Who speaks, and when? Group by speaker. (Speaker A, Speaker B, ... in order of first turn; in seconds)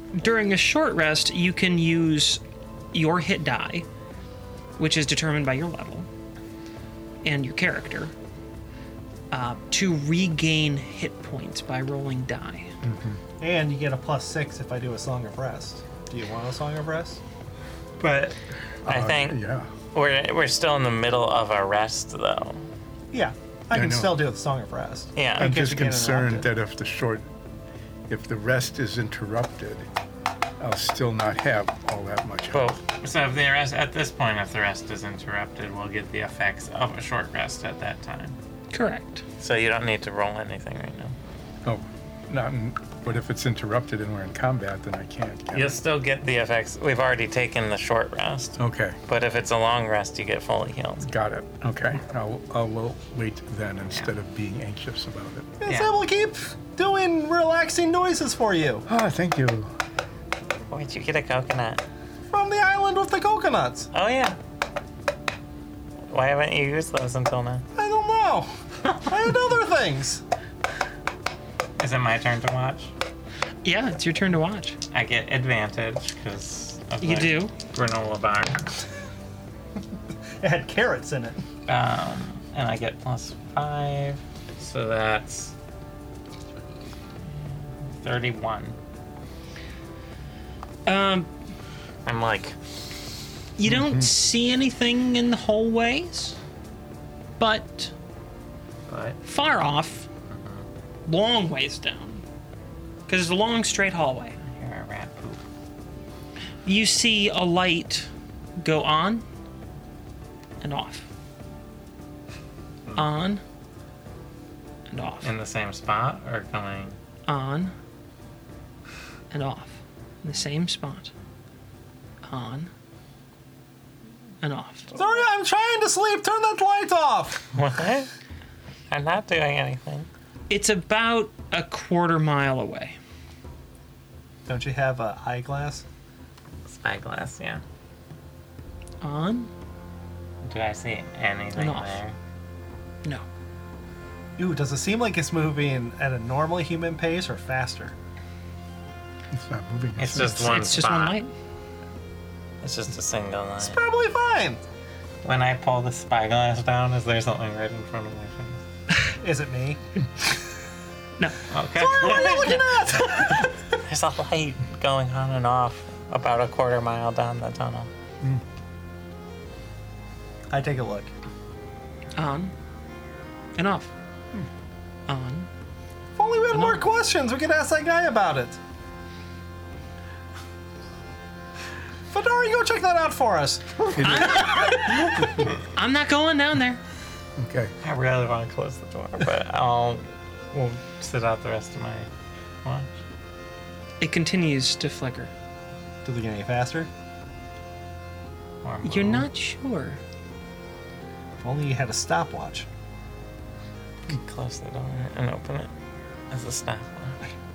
Speaker A: 0.1-2.4, 2.9-3.9, 4.8-6.1, 7.2-8.1, 9.3-12.7, 38.7-39.2, 73.6-74.8, 77.0-77.5, 90.9-91.3, 93.6-96.4, 97.4-97.9, 99.2-100.1, 101.1-102.2, 103.1-104.4, 106.7-109.2, 110.6-111.1, 112.9-113.4, 114.9-115.3, 117.3-117.7, 119.3-121.1, 122.2-122.7, 124.4-125.0, 130.5-133.0, 139.0-139.5, 141.6-142.0, 150.2-151.3, 172.2-172.5, 173.6-173.9, 175.1-175.5, 176.5-176.8, 184.0-186.8, 194.0-195.3, 198.8-200.0
Speaker B: 12.8-13.2, 18.9-19.7, 23.7-24.2, 25.4-27.3, 28.1-29.9, 30.6-32.8, 41.6-45.8, 48.6-49.0, 51.0-55.5, 58.9-59.7, 93.7-94.1, 149.3-150.6, 183.9-185.3, 187.4-187.7
Speaker C: 13.4-17.2, 23.1-26.5, 55.6-58.9, 62.3-63.9, 67.8-70.2, 80.4-81.4, 124.9-127.5, 134.5-135.8, 144.4-147.9, 153.6-154.6, 159.1-159.8, 161.8-163.5, 170.5-171.1, 176.2-178.6, 182.1-185.3, 196.0-196.9, 201.4-202.7
Speaker D: 18.0-19.4, 19.9-22.6, 25.2-25.5, 32.5-38.4, 39.4-41.1, 45.5-51.1, 55.7-55.9, 60.7-61.8, 63.9-64.4, 66.1-67.7, 71.8-72.9, 74.9-78.7, 81.7-85.5, 88.0-88.8, 92.1-92.6, 98.9-99.2, 100.3-100.7, 104.5-105.4, 115.2-117.0, 127.5-128.1, 128.9-130.1, 136.7-137.6, 140.4-142.2, 150.0-151.2, 152.6-153.8, 155.2-158.6, 161.5-167.9, 187.8-192.1, 192.6-192.9, 198.6-199.3, 204.1-205.7, 206.3-207.2